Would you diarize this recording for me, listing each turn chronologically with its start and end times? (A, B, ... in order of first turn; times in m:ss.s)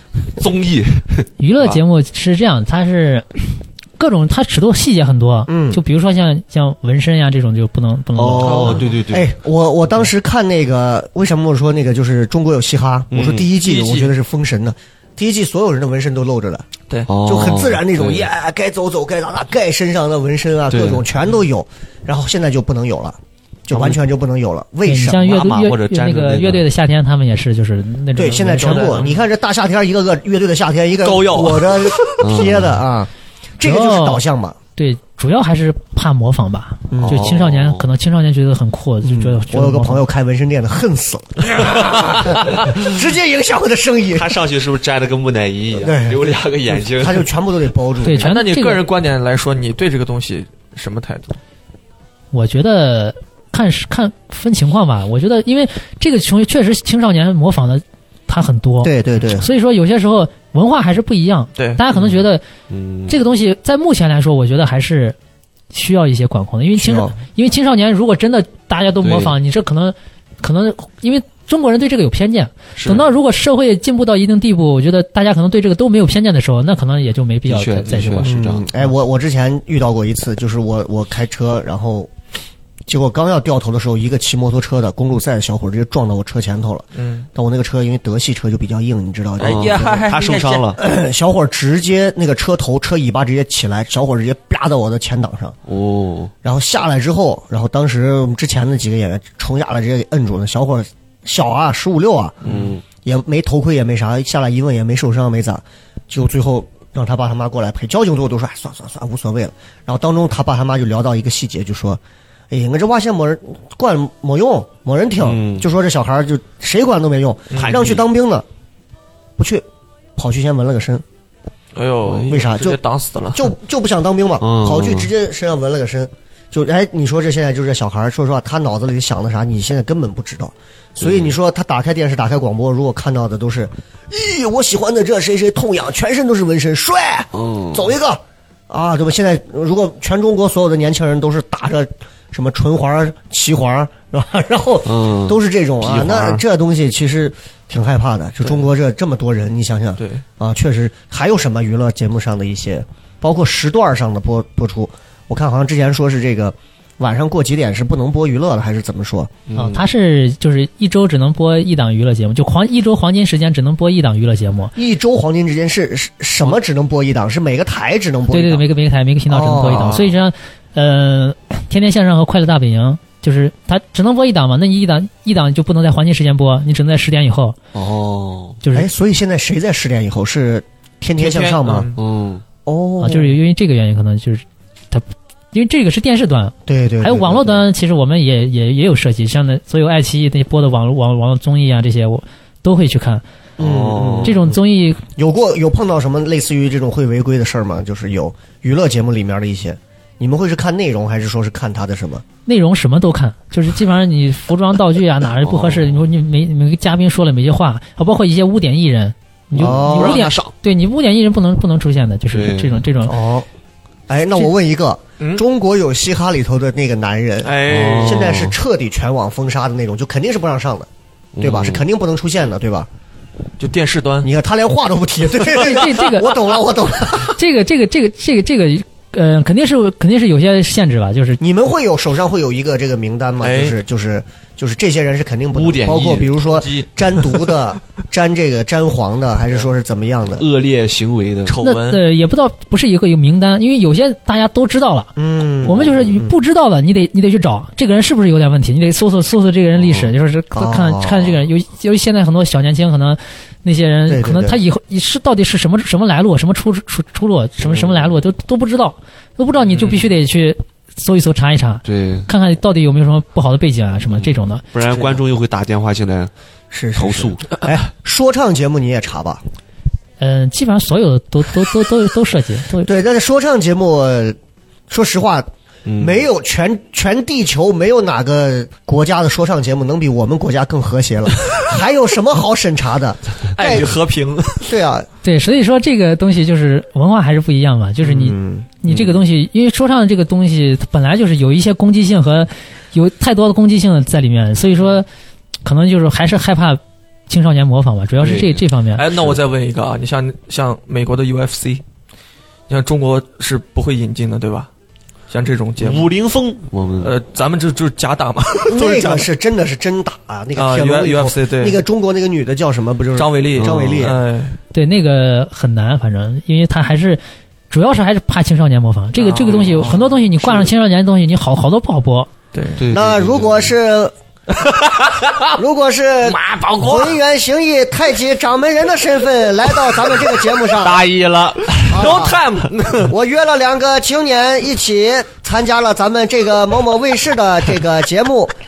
0:00.4-0:01.8 A
0:01.4-0:08.8 B
0:05.5-0:05.8 C
0:08.2-0:09.3 A
0:08.4-0:16.6 C
0:13.1-0:13.5 A
0:13.6-0:14.1 D
0:17.1-0:18.3 A
0:17.2-0:25.4 C
0:20.7-0:21.0 A
0:24.8-0:29.1 B
0:25.1-0:26.6 A
0:28.2-0:34.6 C
0:31.0-0:32.4 D
0:32.2-0:32.8 A
0:33.6-0:34.2 B
0:34.8-0:40.0 B
0:36.9-0:37.4 C
0:37.0-0:37.8 A
0:39.0-0:44.4 C
0:41.8-0:42.8 A
0:44.1-0:47.3 A
0:45.7-0:48.3 C
0:48.0-0:48.8 B
0:48.1-0:51.4 D
0:52.3-1:02.4 B
0:58.8-0:59.5 C
1:01.6-1:01.8 D
1:02.7-1:03.2 A
1:03.1-1:05.2 B
1:05.7-1:18.3 B
1:06.8-1:07.1 C
1:09.0-1:09.4 A
1:12.8-1:13.1 A
1:17.5-1:18.8 A
1:18.2-1:22.1 C
1:22.9-1:30.0 C
1:27.0-1:27.3 D
1:29.4-1:30.7 D
1:29.4-1:30.8 A
1:30.8-1:35.6 C
1:35.7-1:36.3 A
1:36.4-1:42.4 C
1:42.4-1:42.7 D
1:42.4-1:42.8 A
1:43.0-1:58.4 C
1:55.2-1:55.7 A
1:57.5-1:57.8 D
1:57.6-1:58.0 A
1:59.4-1:59.6 C
2:00.2-2:01.0 C
2:01.7-2:03.5 D
2:02.3-2:02.8 C
2:03.3-2:39.3 C
2:04.4-2:05.1 A
2:11.0-2:11.3 A
2:17.3-2:17.8 A
2:24.8-2:26.4 A
2:30.0-2:30.2 D
2:39.5-2:39.8 A
2:39.5-2:44.7 B
2:44.8-2:48.6 C
2:48.3-2:57.6 B
2:49.3-2:50.1 C
2:57.7-2:58.6 A
2:58.6-2:58.9 B
2:58.7-3:01.9 C
3:01.2-3:02.0 D
3:02.0-3:02.4 A
3:02.6-3:03.4 C
3:03.0-3:13.2 B
3:06.7-3:07.6 C
3:13.6-3:14.4 C
3:13.6-3:14.5 A
3:14.2-3:15.0 B
3:15.2-3:22.2 C
3:22.4-3:33.2 B
3:25.4-3:26.0 A
3:29.5-3:30.5 A
3:29.6-3:30.3 C
3:32.3-3:32.8 A
3:33.0-3:33.5 C
3:34.1-3:40.9 C
3:37.4-3:38.3 D
3:37.6-3:38.5 A
3:41.4-3:41.8 A
3:41.4-3:42.9 C
3:43.6-3:44.3 D
3:44.2-3:47.4 C
3:45.6-3:46.4 B
3:47.2-3:51.4 B
3:51.4-4:00.4 C
3:53.4-3:53.8 D
3:55.5-3:56.4 A
3:56.4-3:57.0 D
4:00.4-4:01.6 A
4:01.4-4:02.0 D
4:01.6-4:24.6 B
4:05.2-4:06.3 C
4:09.8-4:10.1 A
4:10.5-4:11.4 C
4:14.1-4:14.6 C
4:17.6-4:18.1 A
4:21.8-4:22.3 A
4:24.1-4:26.3 A
4:26.7-4:29.4 C
4:27.0-4:27.5 A
4:30.2-4:32.9 B
4:32.8-4:34.4 C
4:34.9-4:43.9 C
4:35.8-4:36.2 A
4:43.6-4:44.7 D
4:44.6-4:45.1 C
4:45.2-4:55.1 B
4:48.0-4:48.7 C
4:48.9-4:49.2 A
4:55.6-4:59.0 B
4:58.2-4:58.6 A
4:59.0-5:01.8 D
5:02.7-5:04.7 D
5:05.3-5:06.1 D
5:05.8-5:07.1 A
5:07.0-5:09.3 D
5:08.7-5:14.2 C
5:10.6-5:11.8 D
5:13.2-5:14.6 D
5:13.6-5:14.1 A
5:14.7-5:22.3 B
5:19.2-5:20.1 D
5:22.5-5:22.8 D
5:22.8-5:23.7 A
5:22.9-5:24.1 C
5:25.5-5:31.0 C
5:26.2-5:27.2 D
5:30.8-5:33.1 A
5:31.8-5:32.9 D
5:31.9-5:32.4 C
5:33.0-5:38.5 C